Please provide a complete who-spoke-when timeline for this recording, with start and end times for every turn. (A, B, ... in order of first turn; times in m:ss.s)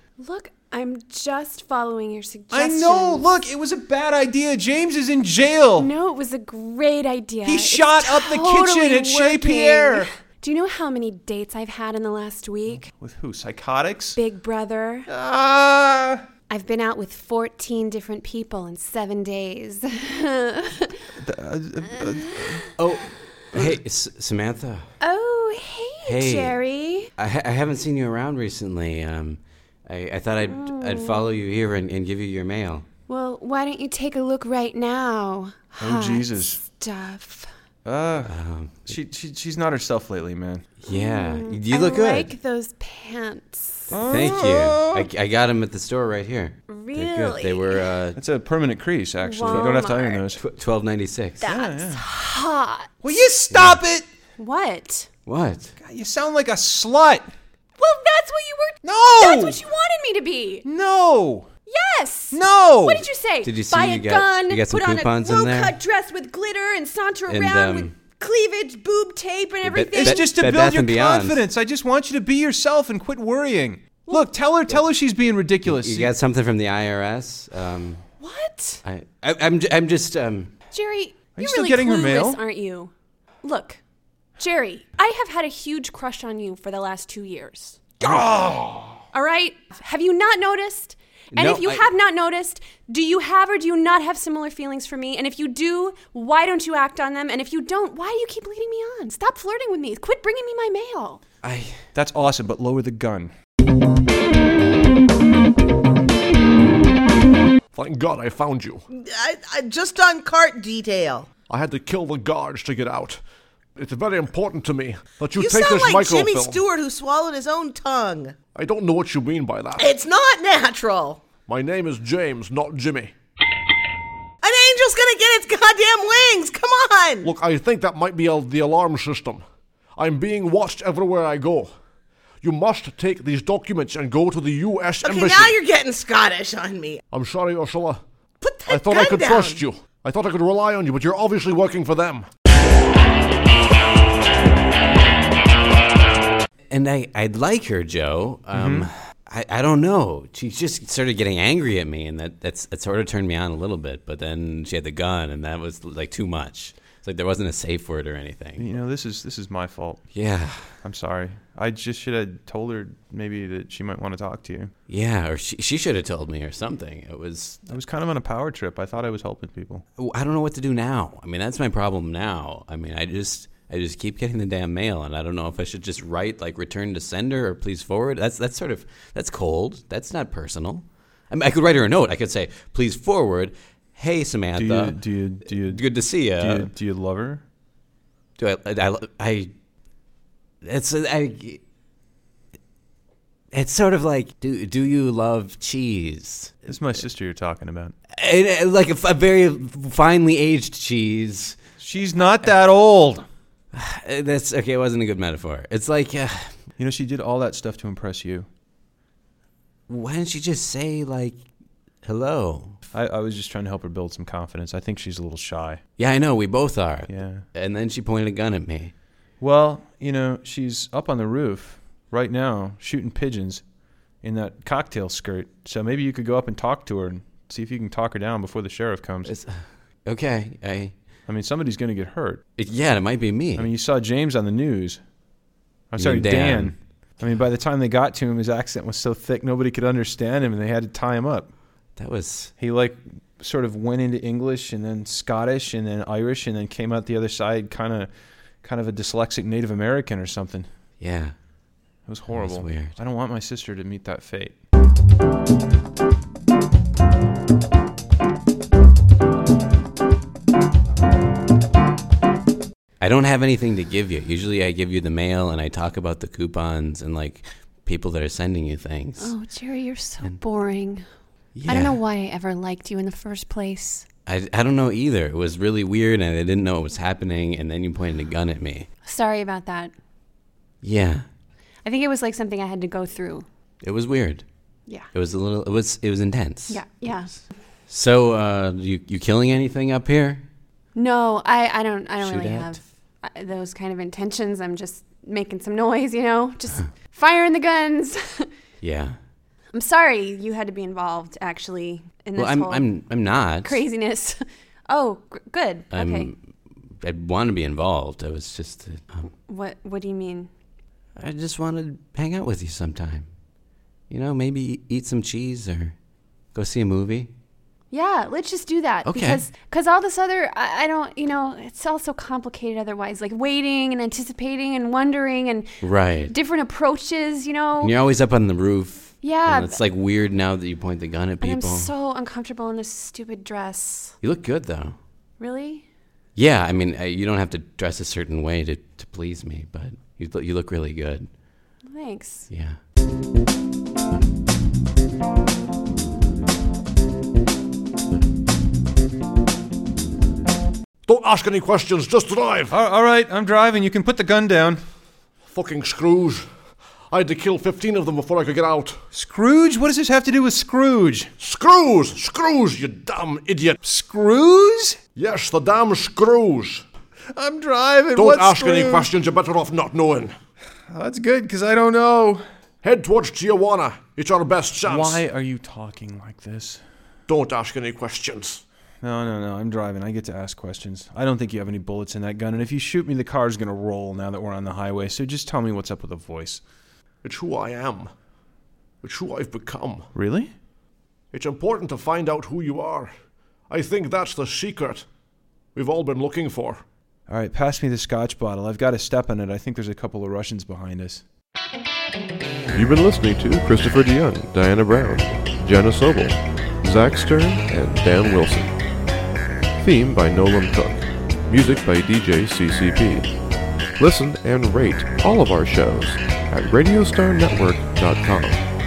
0:00.2-0:03.3 A
0:02.5-0:05.9 B
0:05.8-0:12.9 A
0:07.4-0:10.1 B
0:12.7-0:14.2 B
0:14.1-0:15.1 A
0:15.1-0:16.2 B
0:16.5-0:21.0 A
0:21.2-0:22.6 B
0:22.1-0:22.7 A
0:22.8-0:24.8 C
0:25.0-0:27.1 A
0:26.0-0:26.6 C
0:27.2-0:32.8 C
0:30.4-0:31.3 A
0:33.1-0:37.5 A
0:35.8-0:36.6 B
0:37.8-0:40.7 B
0:38.2-0:39.0 C
0:40.8-0:42.3 C
0:40.9-0:44.0 A
0:43.9-0:45.1 B
0:44.0-0:48.2 C
0:46.7-0:47.9 A
0:48.2-0:50.4 B
0:49.2-0:50.2 A
0:49.5-0:49.8 C
0:50.3-0:51.4 C
0:51.4-0:53.3 A
0:51.4-0:52.0 B
0:53.0-0:54.0 B
0:53.5-0:53.8 C
0:54.4-0:55.1 A
0:55.2-0:55.7 C
0:55.8-0:57.3 B
0:57.8-1:00.6 A
0:58.8-0:59.6 B
1:00.6-1:01.5 B
1:01.7-1:10.2 A
1:02.3-1:03.0 B
1:03.4-1:05.7 C
1:07.3-1:07.9 C
1:09.6-1:11.4 C
1:10.0-1:16.1 B
1:15.6-1:18.0 C
1:18.2-1:18.8 A
1:18.8-1:20.5 C
1:20.7-1:22.9 A
1:21.4-1:22.4 B
1:23.4-1:23.8 A
1:24.4-1:28.3 A
1:28.0-1:29.0 B
1:29.1-1:41.2 A
1:31.3-1:31.9 C
1:41.4-1:41.8 C
1:41.9-1:43.3 B
1:47.7-1:48.8 D
1:48.9-1:51.3 E
1:51.5-1:53.2 D
1:53.8-1:56.6 D
1:55.3-1:58.4 E
1:58.5-1:59.9 D
1:59.8-2:01.3 E
2:01.4-2:03.1 D
2:04.4-2:07.3 E
2:07.2-2:11.7 D
2:12.4-2:15.6 D
2:15.0-2:17.0 E
2:17.1-2:18.0 D
2:18.4-2:19.6 E
2:18.7-2:22.3 D
2:26.7-2:38.6 C
2:28.5-2:28.9 B
2:38.6-2:40.1 B
2:40.1-2:40.7 C
2:40.8-2:44.7 B
2:44.9-2:47.7 C
2:47.7-2:49.8 B
2:50.0-3:06.7 C
3:04.5-3:07.4 B
3:08.4-3:09.5 C
3:10.6-3:11.6 C
3:13.5-3:17.0 C
3:16.7-3:17.9 B
3:18.1-3:21.6 C
3:21.8-3:23.2 B
3:23.7-3:26.5 C
3:26.8-3:28.5 B
3:29.9-3:31.4 C
3:32.0-3:32.8 C
3:32.9-3:35.8 B
3:36.0-3:38.9 C
3:37.1-3:37.4 B
3:39.4-3:43.6 B
3:44.2-3:49.3 B
3:49.2-3:50.9 C
3:51.3-3:52.4 B
3:52.6-3:53.7 C
3:53.6-3:55.0 B
3:55.9-4:01.5 B
3:56.0-3:57.3 C
4:02.0-4:02.5 C
4:02.6-4:08.1 B
4:08.6-4:10.7 B
4:11.0-4:11.4 C
4:12.1-4:14.6 B
4:12.3-4:13.0 C
4:23.0-4:29.3 C
4:29.2-4:31.0 A
4:31.5-4:32.0 C
4:31.6-4:34.1 A
4:34.2-4:38.9 C
4:39.0-4:39.9 A
4:40.8-4:41.2 C
4:41.8-4:43.4 A
4:43.8-4:44.4 C
4:45.1-4:46.8 C
4:46.7-4:47.4 A
4:47.9-4:50.4 C
4:50.9-4:58.5 A
4:52.2-4:52.8 C
4:58.8-4:59.2 C
4:59.7-5:06.3 A
5:02.4-5:03.8 C
5:05.9-5:09.3 C
5:09.3-5:10.5 A
5:11.2-5:13.3 C
5:14.1-5:15.9 C
5:16.5-5:17.3 C
5:17.9-5:28.0 A
5:19.0-5:19.4 C
5:25.8-5:26.3 C
5:27.8-5:31.9 C
5:29.2-5:29.8 A
5:31.4-5:34.2 A
5:34.2-5:35.0 C
5:35.4-5:35.8 A
5:36.4-5:41.3 C
5:41.8-5:42.5 A
5:42.5-5:42.8 C
5:51.1-5:52.7 D
5:52.7-5:54.8 B
5:55.4-5:56.5 D
5:57.1-5:59.0 D
5:59.1-6:01.3 B
6:01.4-6:03.8 D
6:03.8-6:05.0 B
6:05.1-6:06.8 D
6:07.3-6:09.1 B
6:08.2-6:10.3 D
6:10.9-6:12.4 B
6:12.8-6:15.2 D
6:14.8-6:16.8 B
6:17.3-6:18.6 D
6:19.0-6:26.6 B
6:27.2-6:28.1 D
6:29.0-6:30.1 D
6:30.1-6:30.5 B
6:31.3-6:33.1 D
6:33.7-6:35.1 D
6:35.7-6:36.8 D
6:37.3-6:41.2 B
6:42.7-6:48.8 F
6:49.8-6:53.3 F
6:54.0-6:58.7 F